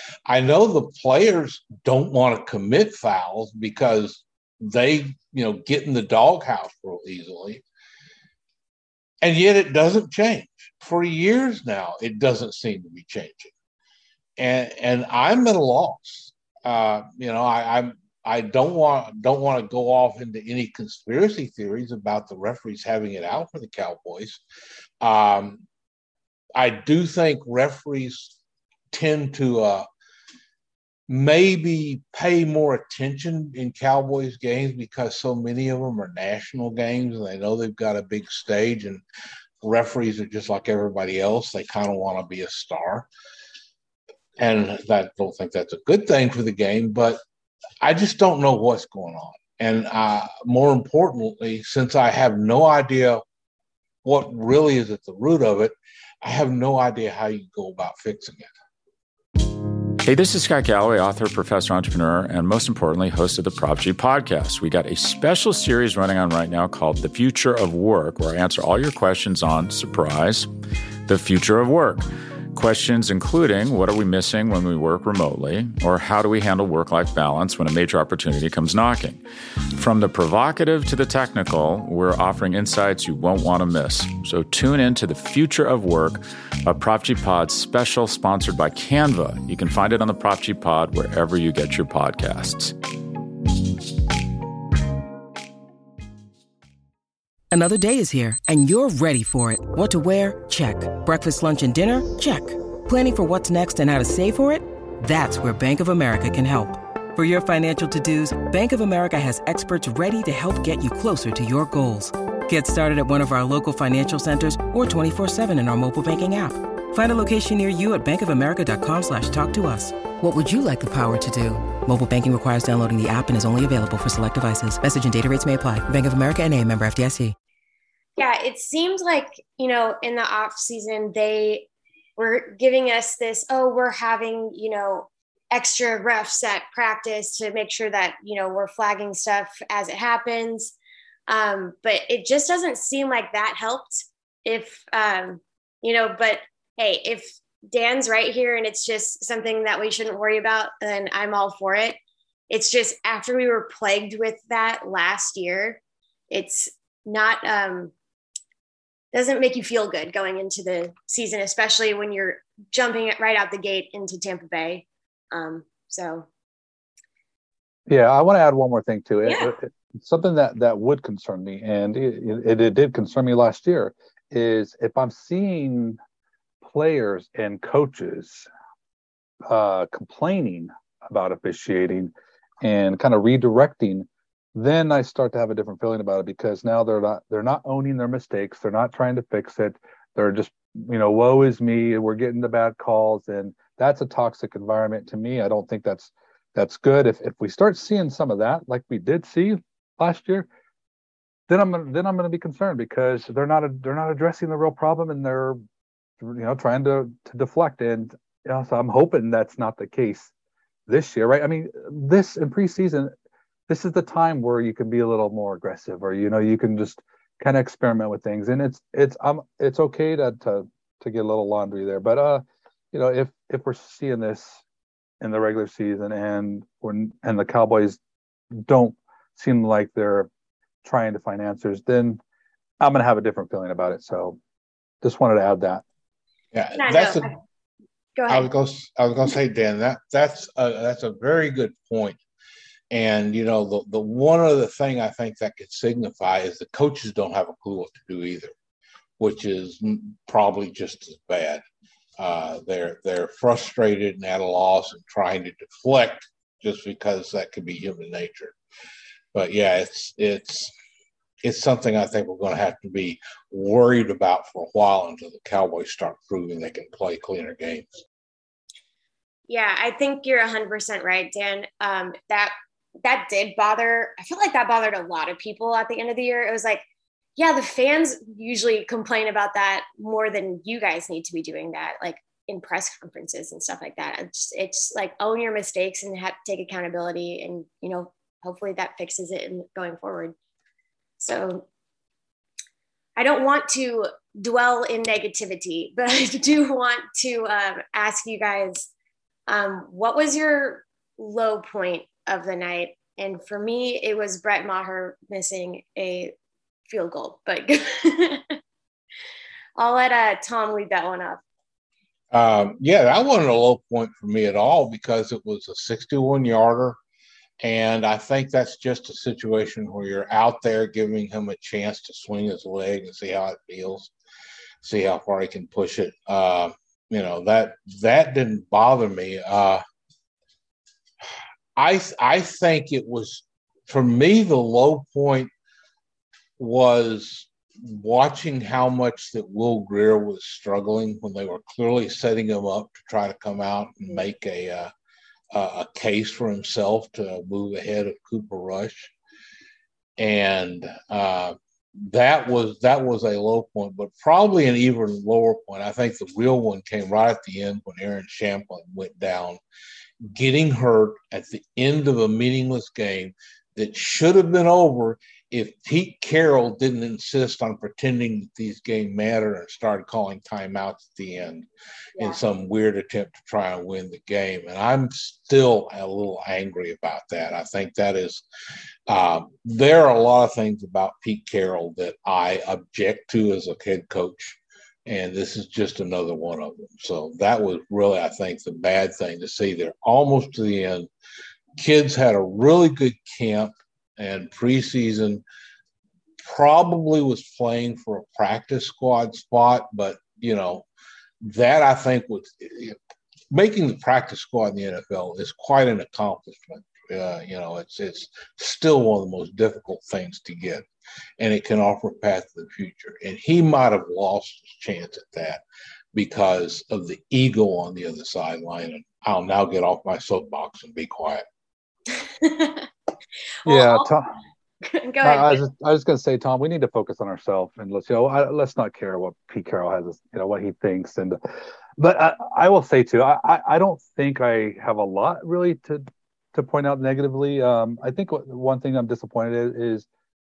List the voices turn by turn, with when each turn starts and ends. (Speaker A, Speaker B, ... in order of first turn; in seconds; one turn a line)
Speaker A: 0.3-7.6
Speaker A: 9.2-13.5
Speaker A: 14.4-24.4
Speaker A: 25.0-25.6
Speaker A: 26.6-28.4
Speaker A: 28.9-29.9
Speaker A: 31.1-39.0
Speaker A: 39.6-43.1
Speaker A: 44.4-47.2
Speaker A: 47.8-53.2
Speaker A: 54.0-58.5
Speaker B: 60.0-70.5
Speaker B: 71.1-92.8
Speaker C: 97.5-127.3
Speaker D: 128.2-140.7
Speaker D: 141.3-152.0
Speaker D: 152.5-157.9
Speaker D: 159.1-166.3
Speaker E: 167.9-176.0
Speaker D: 169.3-169.5
Speaker E: 176.6-178.5
Speaker E: 179.5-200.5
Speaker E: 201.5-205.6
Speaker E: 206.2-210.3
Speaker E: 210.9-213.1
Speaker E: 213.7-224.6
Speaker E: 225.2-228.0
Speaker E: 228.5-230.3
Speaker E: 230.8-232.2
Speaker E: 232.8-234.4
Speaker E: 235.0-235.8
Speaker A: 236.5-237.3
Speaker D: 236.8-237.3
Speaker D: 238.2-238.5
Speaker A: 238.3-242.2
Speaker A: 242.9-248.5
Speaker A: 249.2-251.6
Speaker A: 252.2-258.6
Speaker A: 259.3-260.7
Speaker A: 261.4-268.0
Speaker D: 269.5-272.5
Speaker D: 273.0-276.9
Speaker D: 277.4-290.4
Speaker D: 291.2-291.7
Speaker D: 293.2-298.9
Speaker D: 299.5-306.4
Speaker D: 306.9-308.6
Speaker D: 309.8-311.4
Speaker A: 312.3-317.0
Speaker A: 317.6-324.1
Speaker A: 324.8-329.8
Speaker A: 331.8-335.5
Speaker A: 336.6-344.9
Speaker A: 345.5-349.1
Speaker A: 350.2-359.6
Speaker A: 360.3-378.4
Speaker A: 379.1-391.1
Speaker A: 391.8-395.4
Speaker A: 396.4-400.9
Speaker A: 401.4-403.0
Speaker A: 403.5-410.9
Speaker A: 411.4-415.6
Speaker A: 416.1-421.4
Speaker D: 422.2-422.9
Speaker D: 423.6-424.1
Speaker E: 423.6-424.3
Speaker D: 424.8-425.6
Speaker E: 425.2-431.4
Speaker E: 432.0-440.1